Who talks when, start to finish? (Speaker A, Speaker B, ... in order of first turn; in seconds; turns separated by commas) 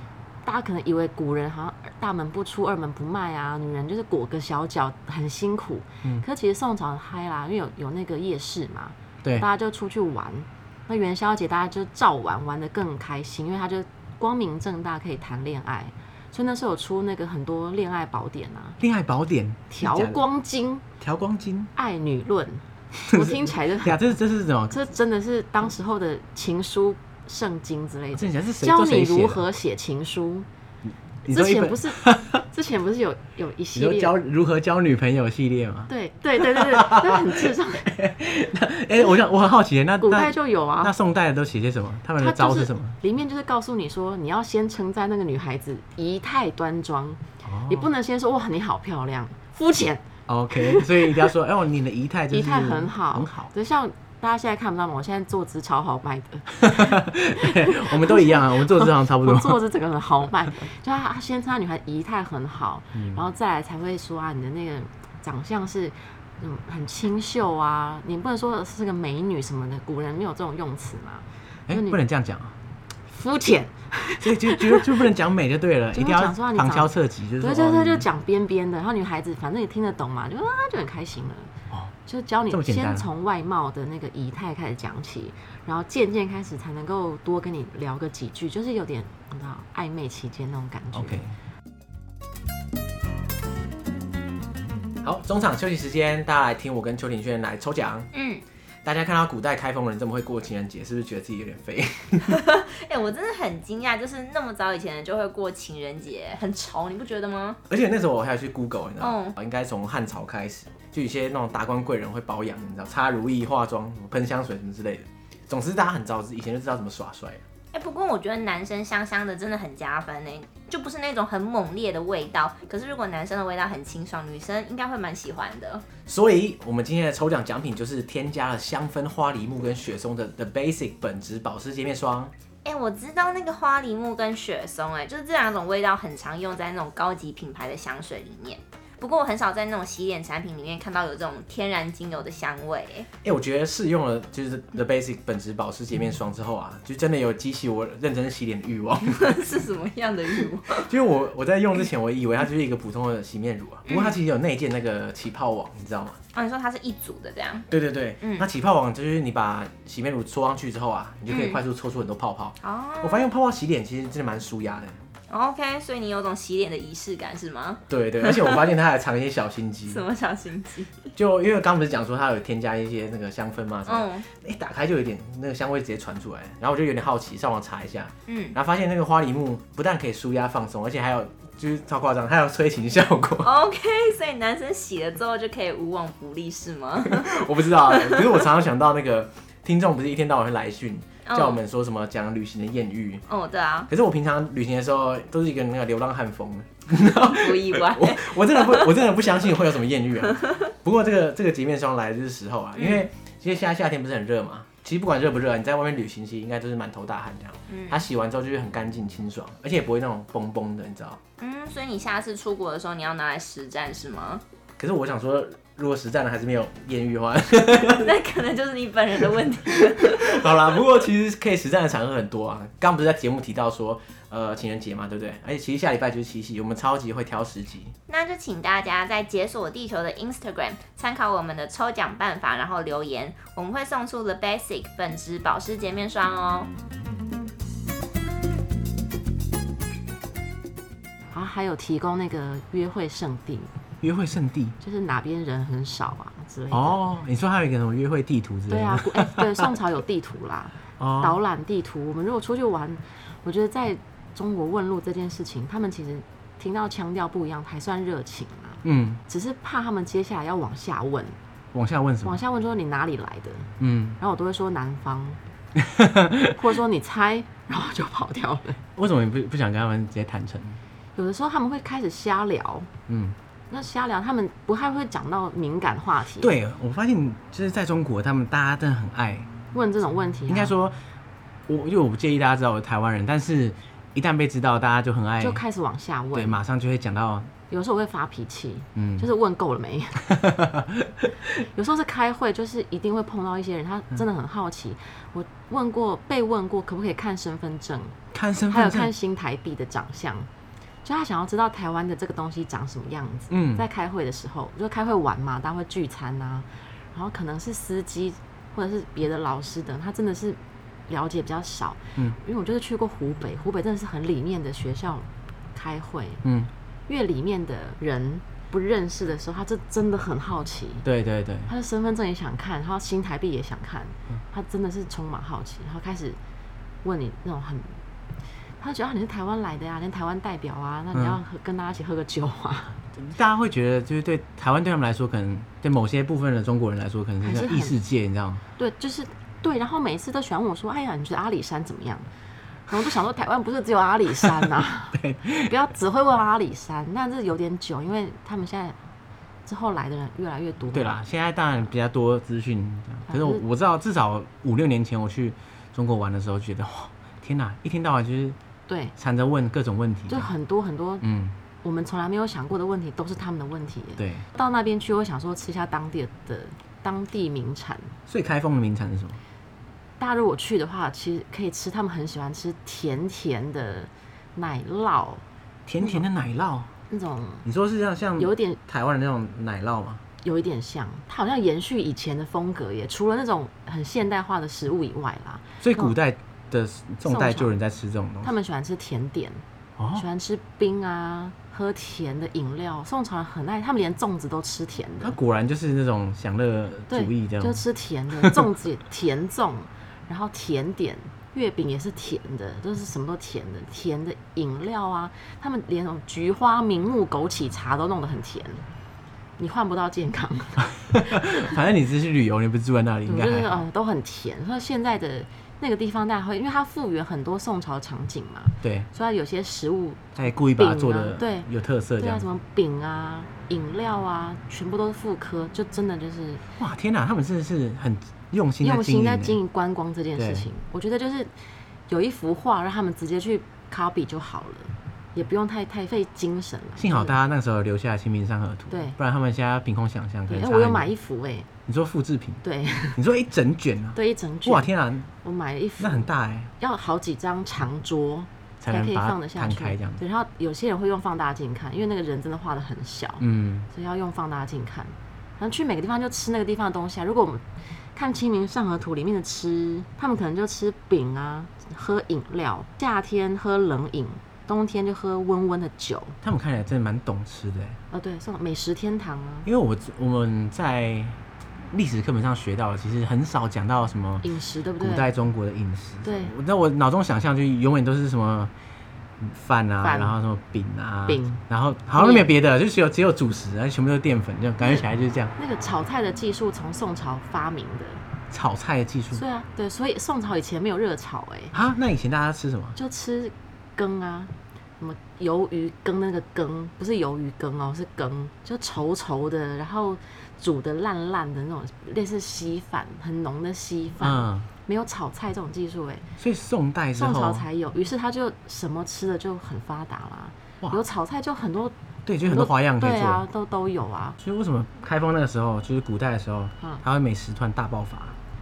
Speaker A: 0.4-18.8, Speaker B: 18.8-20.2, Speaker A: 19.7-20.9, Speaker B: 21.0-21.7, Speaker A: 21.8-24.1, Speaker B: 23.0-24.8, Speaker A: 24.7-30.5, Speaker B: 28.1-29.4, Speaker B: 31.2-32.4, Speaker A: 31.3-34.1, Speaker B: 33.7-43.0, Speaker A: 35.9-37.9, Speaker A: 40.0-40.9, Speaker A: 42.2-51.3, Speaker B: 47.4-47.9, Speaker B: 50.3-53.5, Speaker A: 52.3-72.0, Speaker B: 56.5-59.6, Speaker B: 62.9-63.2, Speaker B: 71.7-72.5, Speaker A: 73.1-75.1, Speaker B: 74.2-78.0, Speaker A: 75.9-81.5, Speaker A: 82.0-91.2, Speaker B: 82.5-83.1, Speaker B: 90.9-91.3, Speaker B: 94.9-98.1, Speaker C: 98.1-98.4, Speaker B: 98.8-102.4, Speaker C: 102.2-107.6, Speaker B: 107.7-117.4, Speaker C: 109.0-109.3, Speaker C: 117.7-125.8, Speaker B: 126.0-132.3, Speaker C: 132.6-143.1, Speaker B: 143.2-149.4, Speaker C: 149.0-150.9, Speaker B: 150.7-156.2, Speaker C: 153.9-154.2, Speaker C: 156.3-157.7, Speaker B: 157.7-165.0, Speaker C: 158.2-158.4, Speaker C: 161.3-161.6, Speaker C: 162.6-163.3, Speaker C: 165.3-168.7, Speaker B: 167.9-170.0, Speaker C: 169.9-171.1, Speaker B: 171.1-183.5, Speaker C: 173.9-174.2, Speaker C: 178.3-178.5, Speaker C: 183.4-188.4, Speaker B: 187.0-193.2, Speaker C: 191.2-191.6, Speaker C: 193.3-193.9, Speaker B: 193.9-211.2, Speaker C: 197.1-198.9, Speaker C: 202.8-203.1, Speaker C: 207.7-208.0, Speaker C: 211.4-214.4, Speaker B: 214.8-218.1, Speaker C: 217.8-220.5, Speaker B: 219.7-227.9, Speaker C: 228.1-236.7, Speaker A: 241.3-243.7, Speaker B: 244.0-244.7, Speaker A: 244.8-247.0, Speaker B: 246.7-249.7, Speaker A: 248.7-261.4, Speaker B: 251.0-251.4, Speaker B: 258.8-259.2, Speaker B: 261.7-262.4, Speaker A: 262.2-265.4, Speaker B: 263.8-264.2, Speaker B: 265.8-266.6, Speaker A: 266.6-268.8, Speaker B: 268.9-270.8, Speaker A: 271.1-272.9, Speaker B: 273.1-273.4, Speaker A: 273.7-276.5, Speaker B: 276.4-279.5, Speaker A: 279.7-280.7, Speaker B: 280.5-281.0, Speaker B: 281.7-285.6, Speaker A: 285.4-286.6, Speaker B: 286.3-287.5, Speaker A: 287.7-290.3, Speaker B: 288.9-289.3, Speaker B: 290.3-291.3, Speaker A: 291.6-298.1, Speaker B: 298.3-299.1, Speaker A: 298.7-300.5, Speaker A: 301.0-316.4, Speaker B: 303.5-303.9, Speaker B: 316.4-316.7, Speaker A: 317.1-321.1, Speaker B: 321.0-321.7, Speaker A: 321.7-326.4, Speaker A: 327.0-328.0, Speaker A: 328.8-333.0, Speaker B: 331.1-331.4, Speaker B: 333.1-338.6, Speaker A: 337.4-338.0, Speaker A: 338.8-342.3, Speaker A: 342.9-349.0, Speaker B: 345.1-345.7, Speaker A: 349.6-351.2, Speaker B: 350.9-358.6, Speaker A: 353.3-353.6, Speaker A: 358.9-359.1, Speaker B: 359.1-360.5, Speaker A: 360.3-361.2, Speaker B: 361.2-361.6, Speaker A: 361.8-368.1, Speaker B: 364.2-364.4, Speaker B: 368.3-369.4, Speaker A: 370.2-375.4, Speaker B: 375.9-376.9, Speaker A: 377.1-377.6, Speaker B: 377.6-380.2, Speaker A: 378.4-378.8, Speaker A: 380.4-386.1, Speaker B: 385.8-388.5, Speaker A: 387.2-387.7, Speaker A: 388.4-389.6, Speaker B: 390.0-390.2, Speaker A: 390.1-395.4, Speaker B: 395.2-397.8, Speaker A: 397.1-408.9, Speaker B: 398.4-398.6, Speaker A: 409.6-411.7, Speaker B: 411.0-413.9, Speaker A: 413.3-426.6, Speaker B: 418.8-419.1, Speaker B: 420.4-422.4, Speaker B: 426.8-429.6, Speaker A: 428.8-431.5, Speaker B: 430.4-430.7, Speaker A: 432.1-437.4, Speaker B: 437.0-441.1, Speaker A: 438.9-439.2, Speaker A: 440.5-441.7, Speaker B: 441.9-442.6, Speaker A: 442.6-443.2, Speaker B: 443.1-445.3, Speaker A: 444.1-446.3, Speaker B: 446.0-446.7, Speaker A: 446.8-466.4, Speaker B: 448.8-450.2, Speaker B: 453.4-453.9, Speaker B: 466.4-468.0, Speaker A: 468.1-469.7, Speaker B: 469.6-471.4, Speaker B: 471.9-474.4, Speaker A: 474.4-475.3, Speaker B: 475.0-478.7, Speaker A: 476.2-476.5, Speaker B: 479.4-485.5, Speaker A: 480.0-480.4, Speaker A: 481.3-481.6, Speaker A: 482.1-482.5, Speaker A: 485.6-488.2, Speaker B: 488.5-489.4, Speaker A: 489.3-491.7, Speaker B: 491.7-493.0, Speaker A: 492.9-506.2, Speaker B: 504.2-504.7, Speaker B: 506.4-507.6, Speaker A: 507.1-514.4, Speaker B: 512.2-513.4, Speaker B: 514.4-518.4